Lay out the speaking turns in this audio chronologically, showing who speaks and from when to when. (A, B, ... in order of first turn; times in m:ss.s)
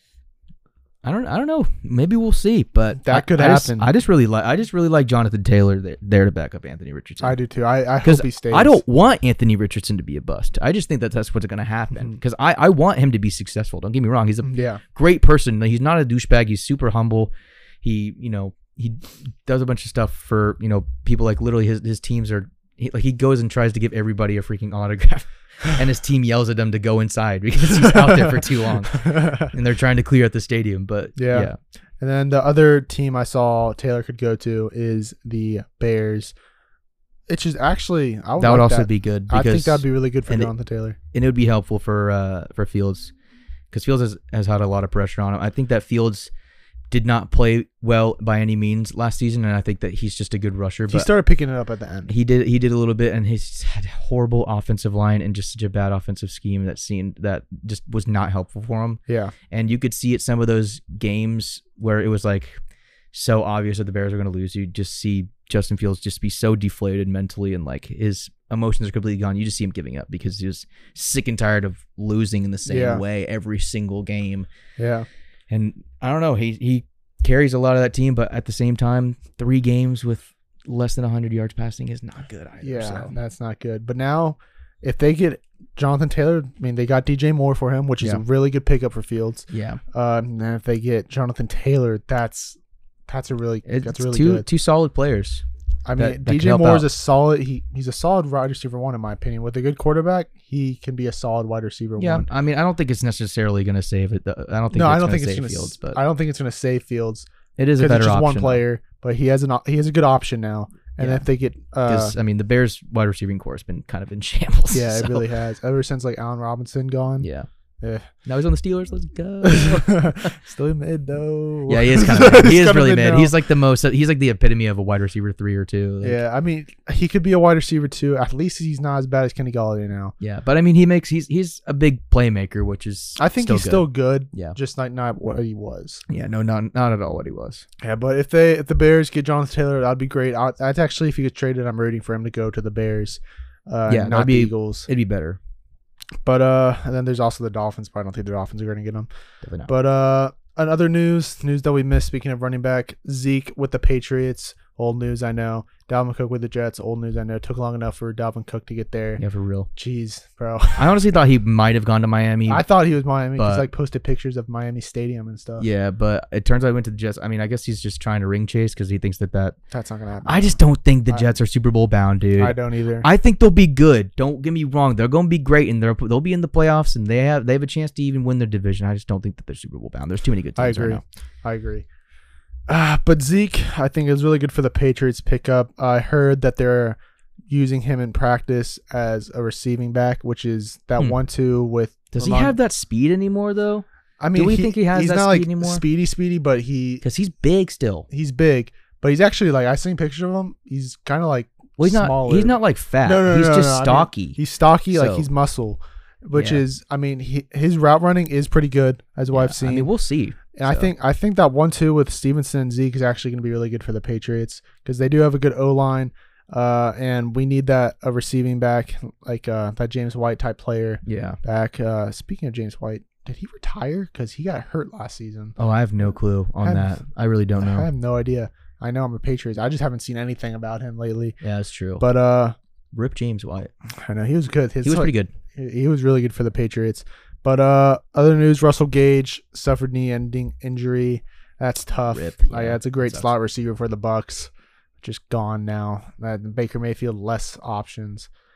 0:01.0-0:07.4 A
0:03.0-0:03.9 B
0:07.2-0:08.8 B
0:08.0-0:17.3 A
0:14.4-0:14.8 B
0:17.8-0:31.6 A
0:27.7-0:29.5 B
0:31.2-0:36.3 B
0:37.3-0:41.0 B
0:38.4-0:40.5 A
0:41.1-0:43.1 A
0:43.7-0:46.3 A
0:46.9-0:51.1 A
0:50.9-0:52.1 B
0:52.1-1:02.6 A
0:59.1-0:59.3 B
1:03.1-1:14.5 A
1:12.6-1:13.0 B
1:14.8-1:15.1 B
1:15.5-1:23.1 A
1:22.6-1:34.4 B
1:29.5-1:29.8 A
1:33.6-1:35.4 A
1:35.8-1:42.3 B
1:36.0-1:36.9 A
1:42.0-1:46.0 A
1:44.7-1:52.1 B
1:47.6-1:48.6 A
1:51.0-1:51.2 A
1:51.8-1:55.2 A
1:54.7-1:57.3 B
1:57.2-1:57.5 A
1:57.8-1:58.1 B
1:58.2-2:00.3 A
1:59.4-2:03.3 B
2:01.7-2:06.2 A
2:06.0-2:10.1 B
2:10.2-2:14.6 A
2:13.2-2:16.0 B
2:16.1-2:17.6 A
2:17.8-2:24.9 B
2:23.9-2:25.4 A
2:26.2-2:29.1 B
2:29.4-2:29.7 A
2:29.7-2:39.2 B
2:39.2-2:39.7 A
2:39.8-2:41.0 B
2:40.8-2:42.6 A
2:42.5-2:45.6 B
2:43.4-2:43.7 A
2:45.6-2:49.6 A
2:49.7-2:51.2 B
2:50.2-3:01.0 A
2:52.4-2:53.0 B
3:00.6-3:01.8 B
3:02.7-3:12.6 B
3:12.1-3:15.8 A
3:14.2-3:17.0 B
3:17.0-3:18.1 A
3:18.1-3:29.9 B
3:21.8-3:24.4 A
3:24.9-3:25.3 A
3:26.3-3:26.6 A
3:29.3-3:30.9 A
3:30.5-3:45.6 B
3:41.0-3:41.4 A
3:45.6-3:47.9 A
3:46.6-3:47.0 B
3:47.5-3:51.4 B
3:51.4-3:52.0 A
3:52.0-3:52.6 B
3:52.9-3:53.7 A
3:54.0-4:04.5 B
3:54.8-3:55.3 A
4:02.1-4:03.3 A
4:05.0-4:08.3 B